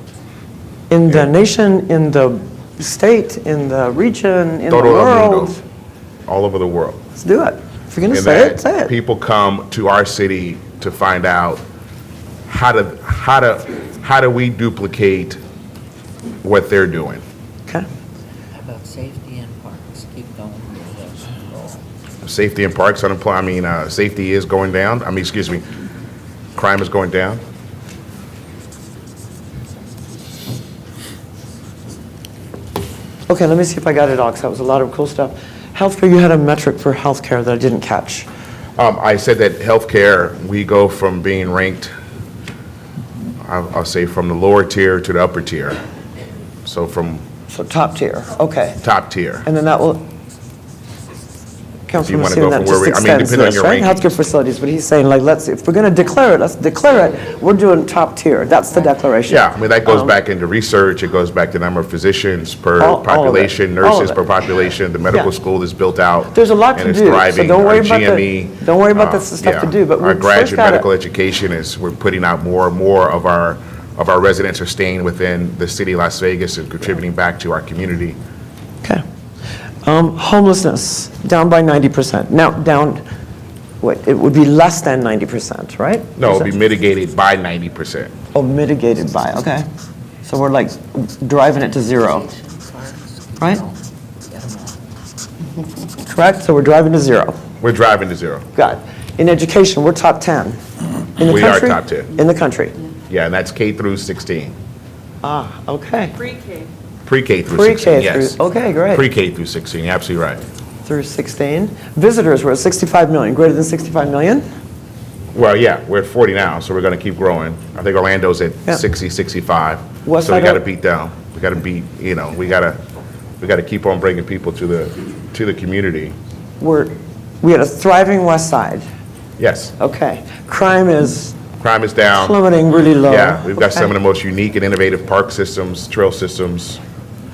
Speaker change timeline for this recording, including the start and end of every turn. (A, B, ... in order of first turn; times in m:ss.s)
0:00.9-0:05.6 A
0:04.7-0:05.6 B
0:06.3-0:07.0 B
0:07.2-0:08.9 A
0:08.1-0:11.6 B
0:12.5-0:15.4 B
0:16.4-0:17.2 B
0:18.6-0:21.8 C
0:22.2-0:25.6 B
0:26.5-0:27.4 B
0:33.3-0:38.3 A
0:38.8-0:41.9 B
0:43.4-0:45.8 B
0:46.6-0:47.2 B
0:47.5-0:48.8 A
0:48.8-0:49.5 B
0:49.4-0:50.0 A
0:51.9-1:00.1 A
0:52.0-0:54.0 B
0:59.3-1:18.2 B
1:02.8-1:04.2 A
1:06.3-1:10.9 A
1:19.8-1:23.0 A
1:23.8-1:26.5 A
1:26.2-1:28.1 B
1:28.3-1:29.6 A
1:30.2-1:32.3 A
1:31.9-1:34.8 C
1:36.0-1:37.4 A
1:37.6-1:38.4 B
1:38.5-1:40.6 A
1:41.2-1:42.8 A
1:41.2-1:42.1 B
1:43.1-1:44.6 B
1:45.2-1:46.2 A
1:47.0-1:48.4 B
1:47.5-1:49.1 A
1:48.9-1:50.4 B
1:50.8-1:54.4 A
1:55.3-2:02.8 B
2:00.0-2:00.6 A
2:03.4-2:06.2 B
2:06.6-2:08.8 A
2:09.4-2:09.7 B
2:09.8-2:11.4 A
2:11.6-2:12.4 B
2:12.1-2:13.9 A
2:13.0-2:16.8 B